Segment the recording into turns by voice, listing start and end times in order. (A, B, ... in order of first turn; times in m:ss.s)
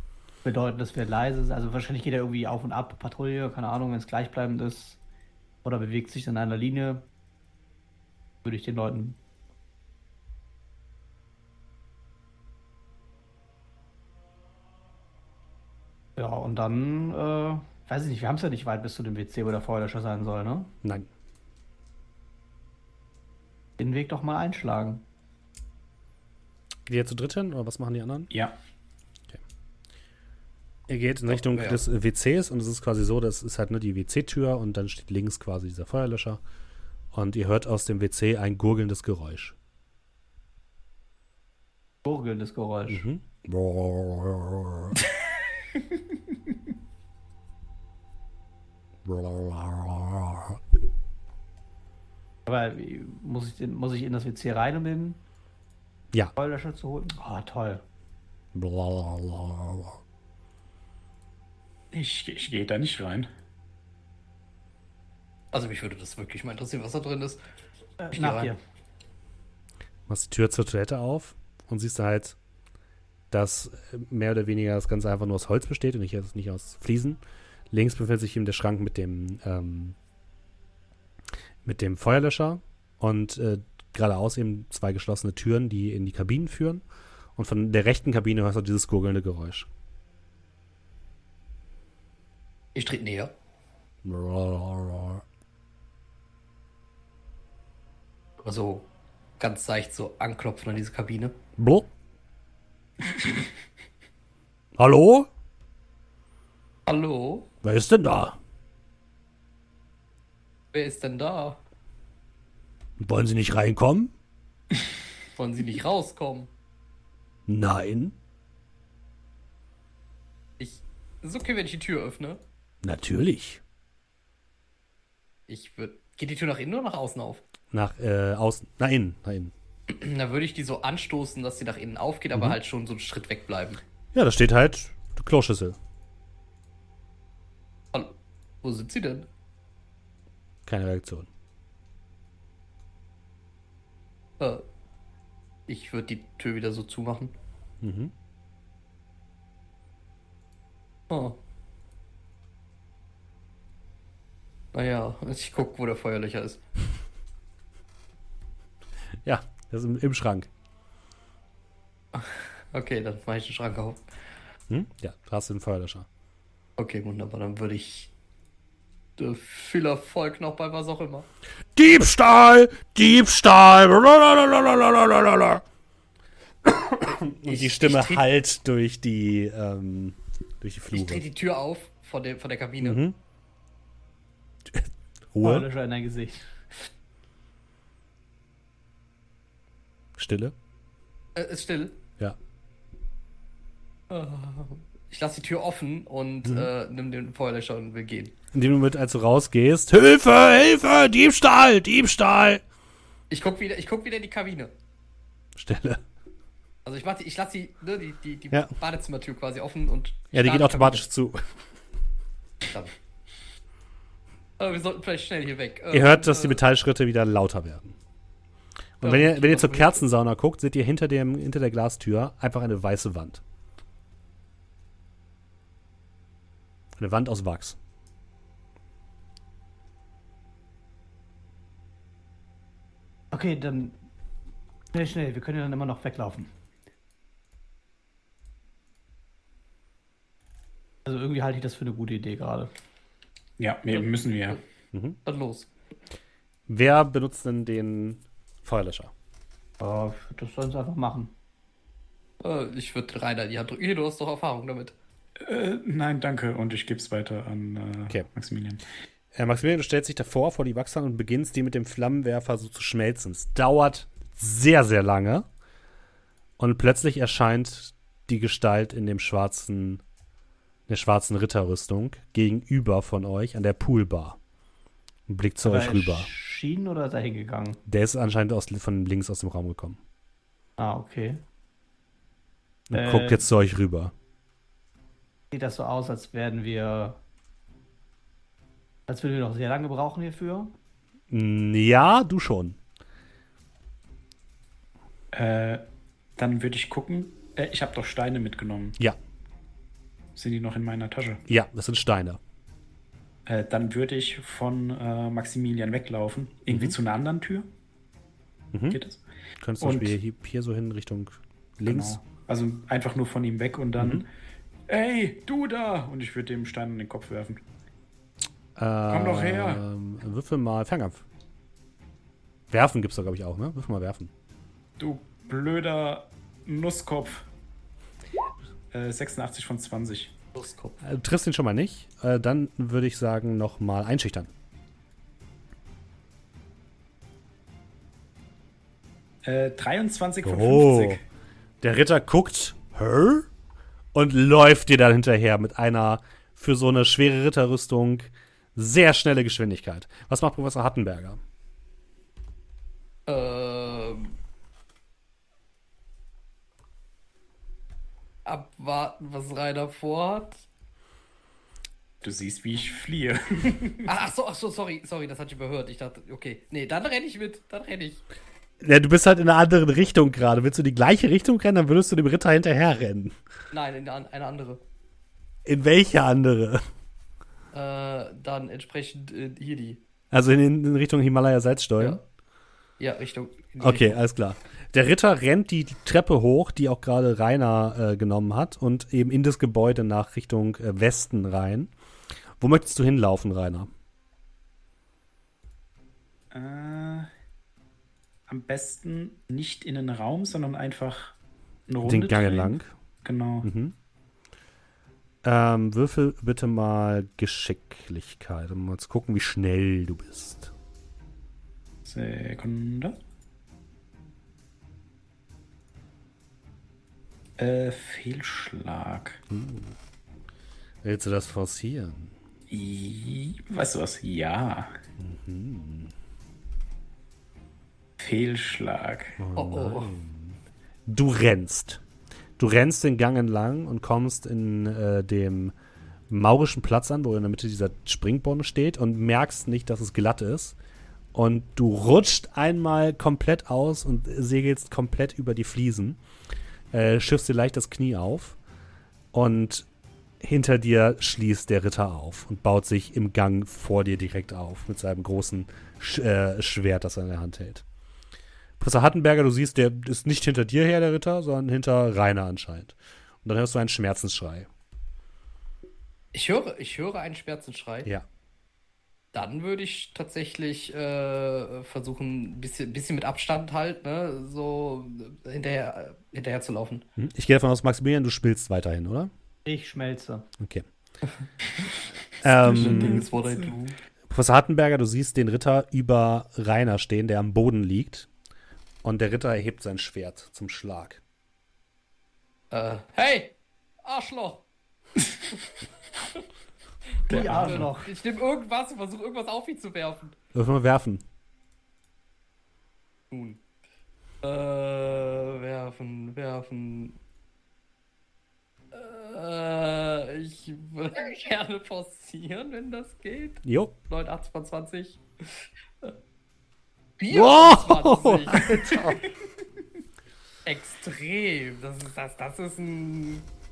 0:00.4-0:05.0 A
0:05.6-0:07.0 A
0:08.4-0:09.2 A
0:16.2-0:20.7 A
0:23.8-0:25.0 A
0:26.9-0:28.3 B
0:28.3-0:28.6 C
0:30.9-0:36.4 B
0:31.4-0:31.8 D
0:37.1-0:39.6 B
0:42.0-0:43.0 A
0:42.9-0:45.0 B
0:49.0-0:50.6 B
0:52.5-0:55.2 A
0:56.4-0:57.8 A
0:58.5-1:00.0 B
1:01.9-1:03.3 C
1:05.5-1:07.4 D
1:08.0-1:08.6 A
1:08.1-1:08.5 D
1:10.1-1:12.4 B
1:13.3-1:17.2 B
1:17.7-1:20.0 B
1:21.6-1:26.8 B
1:27.4-1:29.7 B
1:32.7-1:33.3 D
1:34.0-1:35.2 B
1:38.4-1:38.8 D
1:39.4-1:41.4 D
1:41.6-1:41.9 B
1:44.8-1:45.3 B
1:46.9-1:47.5 D
1:47.6-1:48.4 B
1:50.7-1:51.6 D
1:53.0-1:54.1 B
1:55.4-1:56.5 D
1:57.5-1:58.1 B
2:00.6-2:02.4 D
2:02.8-2:03.6 B
2:05.5-2:07.4 D
2:07.7-2:09.5 B
2:09.9-2:13.8 D
2:14.1-2:15.8 B
2:17.9-2:19.3 D
2:20.6-2:21.3 B
2:24.4-2:24.6 D
2:25.7-2:27.3 D
2:27.8-2:28.1 B
2:31.1-2:31.4 D
2:34.7-2:36.6 D
2:39.2-2:40.5 B
2:42.1-2:44.0 D
2:44.7-2:46.0 B
2:46.8-2:48.1 D
2:49.2-2:51.3 D
2:51.8-2:55.6 B
2:56.6-3:01.2 B
2:57.0-2:58.2 D
3:00.9-3:03.0 D
3:02.8-3:03.2 B
3:04.7-3:05.7 B
3:05.4-3:06.5 A
3:10.2-3:10.5 B
3:11.3-3:11.9 D
3:14.1-3:18.3 D
3:18.5-3:22.6 B
3:23.3-3:24.7 D
3:25.6-3:26.0 B
3:26.8-3:31.0 D
3:30.3-3:31.4 B
3:34.6-3:36.6 D
3:35.9-3:38.0 B
3:39.0-3:43.4 B
3:39.0-3:40.0 D
3:47.0-3:47.8 B
3:53.3-3:54.0 A
3:54.9-3:56.5 A
4:01.0-4:02.7 A
4:03.6-4:04.6 C
4:04.9-4:05.2 B
4:05.2-4:05.7 D
4:06.7-4:09.1 B
4:09.8-4:11.3 A
4:12.4-4:14.9 D
4:15.4-4:18.8 C
4:19.3-4:25.4 B
4:26.6-4:30.0 B
4:30.9-4:34.4 B
4:35.3-4:36.3 B
4:35.6-4:37.8 A
4:37.9-4:40.0 B
4:40.8-4:41.4 A
4:42.9-4:44.1 B
4:42.9-4:43.4 A
4:45.5-4:47.2 A
4:49.1-4:50.7 A
4:51.3-4:52.8 B
4:55.3-4:55.8 C
4:56.4-4:59.0 C
5:00.4-5:01.4 C
5:01.5-5:02.4 B
5:03.4-5:07.7 C
5:06.7-5:07.0 B
5:08.7-5:09.0 B
5:08.9-5:09.2 C
5:09.6-5:12.2 B
5:09.8-5:10.1 C
5:11.9-5:14.3 C
5:14.0-5:14.2 B
5:14.9-5:17.6 C
5:18.8-5:21.2 B
5:19.1-5:19.8 C
5:22.7-5:24.3 B
5:25.0-5:27.5 C
5:28.9-5:30.3 C
5:30.5-5:31.0 D
5:31.0-5:34.5 B
5:39.4-5:41.2 C
5:40.4-5:41.2 B
5:41.8-5:43.5 B
5:44.1-5:51.4 B
5:53.3-5:54.4 D
5:58.4-6:00.6 D
6:02.2-6:04.1 C
6:04.0-6:08.2 D
6:08.8-6:13.4 B
6:13.7-6:14.8 D
6:15.6-6:16.9 B
6:17.7-6:20.0 D
6:20.3-6:22.2 B
6:23.0-6:24.2 D
6:23.8-6:31.9 B
6:32.6-6:33.9 B
6:36.5-6:37.3 C
6:38.5-6:41.4 C
6:41.9-6:43.7 C
6:42.0-6:42.9 B
6:43.6-6:43.9 B
6:45.4-6:50.7 B
6:52.0-6:53.2 C
6:57.6-6:59.4 C
6:59.5-6:59.9 B
7:01.0-7:02.4 B
7:02.7-7:04.9 C
7:05.2-7:06.1 B
7:08.2-7:09.4 C
7:09.4-7:12.0 B
7:09.5-7:10.1 D
7:12.6-7:15.7 B
7:16.3-7:20.8 B
7:21.3-7:26.2 B
7:26.9-7:28.6 B
7:29.3-7:29.9 B
7:30.4-7:37.8 B
7:38.8-7:44.7 B
7:46.3-7:48.1 D
7:49.3-7:57.0 D
7:57.2-7:59.3 B
7:59.6-8:00.4 A
8:00.6-8:00.9 B
8:02.4-8:03.3 B
8:02.5-8:04.0 D
8:02.7-8:03.7 C
8:04.3-8:08.3 B
8:09.0-8:11.2 B
8:12.7-8:14.6 D
8:17.2-8:20.3 D
8:17.3-8:18.1 A
8:17.3-8:17.8 C
8:17.6-8:17.9 B
8:20.5-8:21.2 B
8:23.3-8:23.6 D
8:24.4-8:27.2 D
8:28.9-8:36.1 D
8:33.6-8:33.9 B
8:37.2-8:39.3 D
8:37.3-8:39.1 B
8:40.6-8:43.4 D